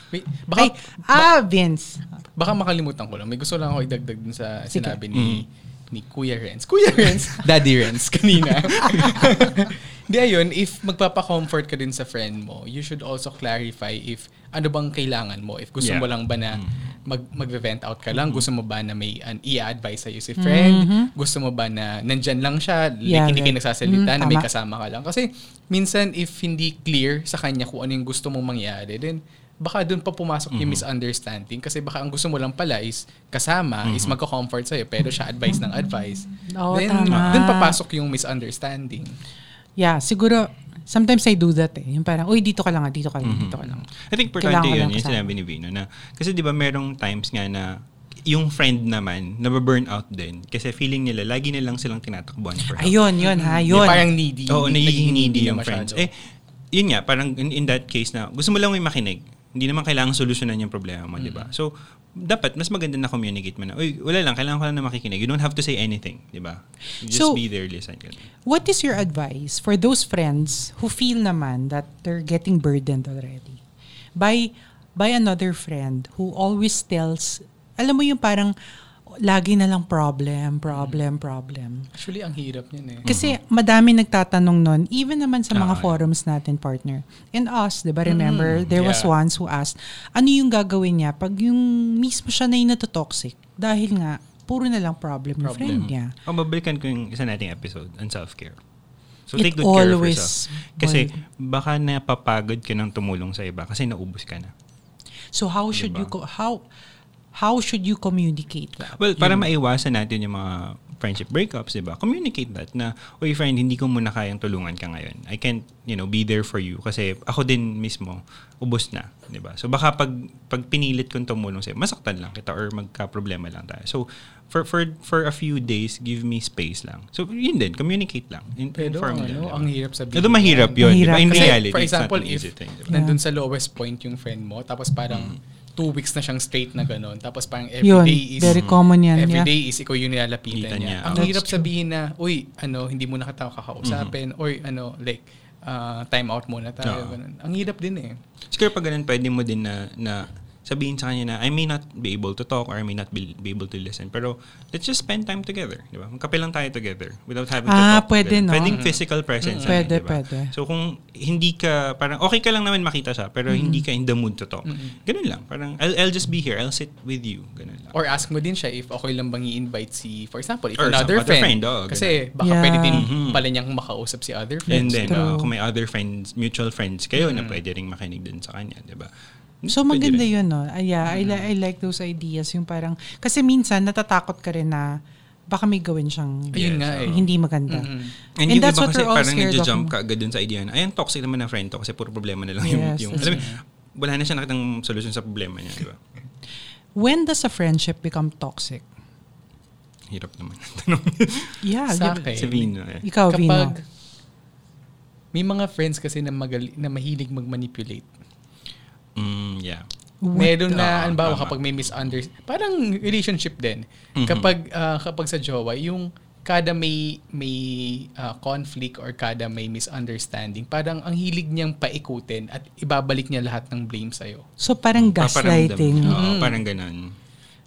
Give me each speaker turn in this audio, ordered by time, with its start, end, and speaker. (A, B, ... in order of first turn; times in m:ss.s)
0:00.1-0:01.3 A
0:00.6-0:02.1 B
0:02.4-0:39.2 A
0:04.7-0:05.0 B
0:05.1-0:05.4 C
0:08.9-0:09.2 B
0:15.8-0:16.9 C
0:18.1-0:18.5 C
0:20.4-0:21.1 B
0:23.0-0:24.4 B
0:30.5-0:30.8 C
0:33.8-0:34.2 C
0:36.5-0:37.8 B
0:37.1-0:37.5 C
0:39.8-0:43.8 B
0:43.2-0:53.0 C
0:44.4-0:45.2 B
0:52.7-0:54.1 B
0:53.2-0:56.1 A
0:53.7-0:56.1 C
0:56.7-1:08.2 C
1:01.2-1:01.5 A
1:07.1-1:07.4 B
1:08.4-1:13.6 B
1:14.2-1:18.5 B
1:19.2-1:21.9 B
1:20.7-1:21.0 A
1:21.9-1:23.1 A
1:23.0-1:23.4 C
1:23.1-1:36.1 B
1:25.5-1:26.1 C
1:28.0-1:29.1 A
1:28.5-1:28.8 C
1:35.4-1:35.9 A
1:35.6-1:38.6 C
1:39.3-1:44.5 C
1:39.4-1:41.1 B
1:45.3-1:46.6 B
1:45.7-1:46.1 C
1:47.3-1:49.0 B
1:49.0-2:13.0 C
1:49.2-1:49.4 A
2:08.8-2:28.2 A
2:10.8-2:11.6 B
2:12.9-2:13.2 B
2:15.1-2:15.4 C
2:17.8-2:19.5 B
2:18.4-2:18.8 C
2:20.5-2:21.6 C
2:21.1-2:21.6 B
2:23.8-2:24.1 C
2:26.8-2:27.2 C
2:28.5-2:48.0 C
2:37.6-2:38.8 B
2:38.6-2:39.9 A
2:39.6-2:40.5 B
2:43.5-2:43.8 B
2:44.7-2:45.0 A
2:47.9-2:55.3 A
2:50.8-2:52.2 C
2:52.4-2:53.1 B
2:52.9-2:53.4 C
2:54.7-2:55.5 B
2:54.7-2:59.1 C
2:57.2-2:57.6 A
2:59.6-3:00.3 C
2:59.7-3:07.9 B
3:01.0-3:01.5 A
3:06.5-3:07.2 C
3:06.5-3:08.1 A
3:08.4-3:16.0 C
3:08.4-3:09.9 B
3:12.6-3:13.4 B
3:13.1-3:13.6 A
3:17.0-3:18.8 B
3:20.1-3:21.6 C
3:21.6-3:23.7 B
3:21.9-3:22.7 A
3:22.3-3:23.1 C
3:23.3-3:23.8 A
3:25.3-3:28.1 A
3:29.2-3:29.9 C
3:30.2-3:30.9 B
3:30.3-3:44.4 A
3:30.7-3:32.2 C
3:34.2-3:34.5 C
3:44.6-3:46.2 B
3:45.0-3:47.1 C
3:46.0-3:46.6 A